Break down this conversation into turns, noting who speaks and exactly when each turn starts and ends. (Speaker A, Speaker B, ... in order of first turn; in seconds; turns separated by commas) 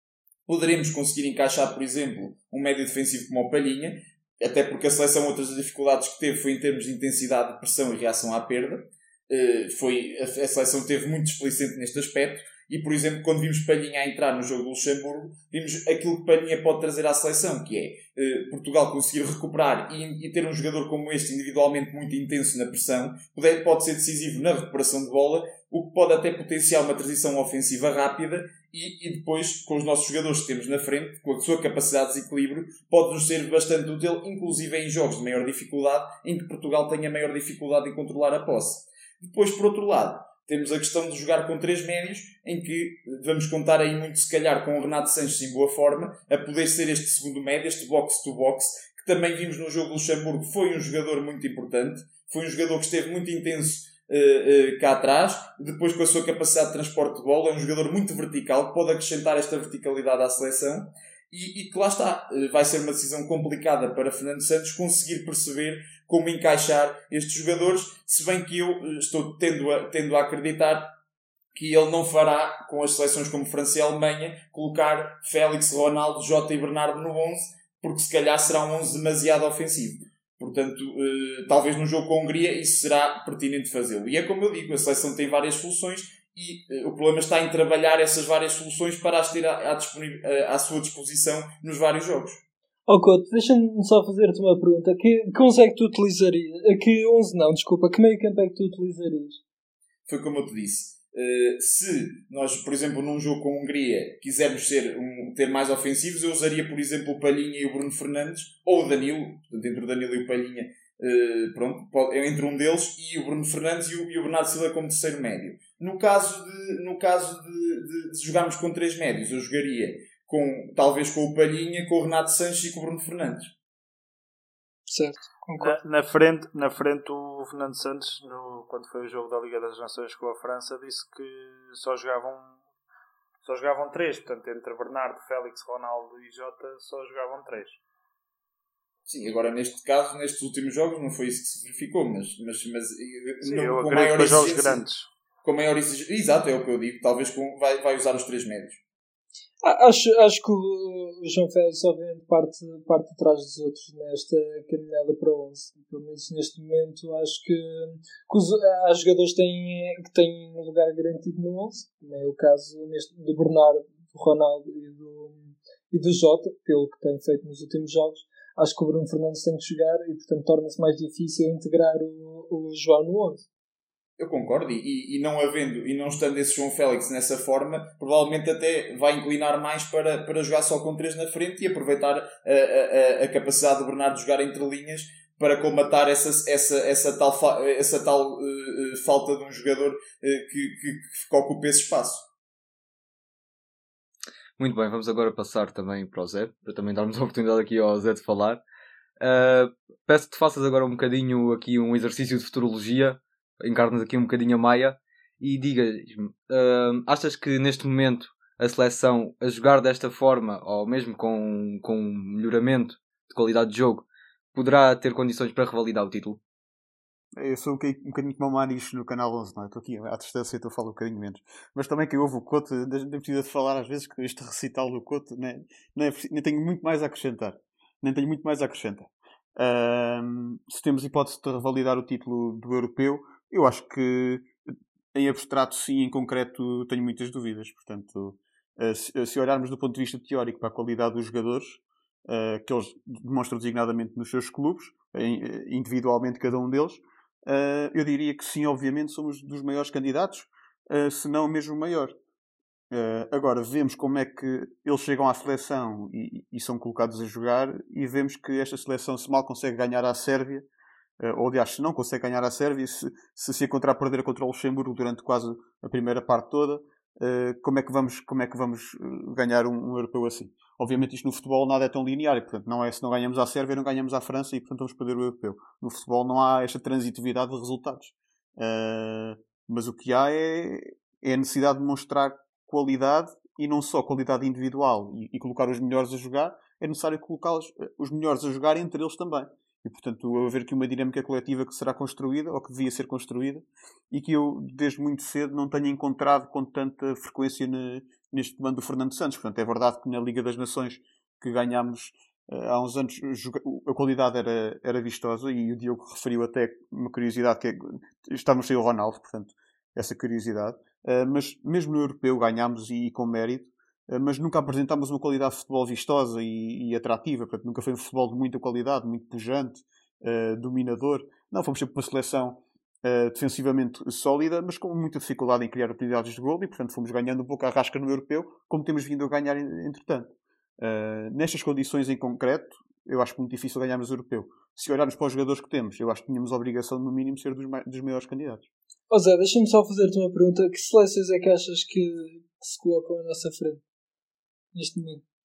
Speaker A: 0.5-70.9, Speaker A: 71.5-92.4, Speaker B: 92.9-99.4, Speaker A: 100.1-123.5, Speaker B: 124.9-125.8, Speaker C: 125.6-132.6, Speaker C: 133.4-137.8, Speaker A: 139.1-144.8, Speaker C: 143.4-145.1, Speaker A: 145.4-148.8, Speaker B: 149.6-173.4, Speaker A: 174.2-192.2, Speaker D: 194.6-198.6, Speaker D: 199.2-216.4, Speaker E: 217.3-234.5, Speaker E: 235.1-252.2, Speaker E: 252.9-260.7, Speaker E: 261.2-338.7, Speaker B: 339.1-343.8, Speaker B: 344.7-345.2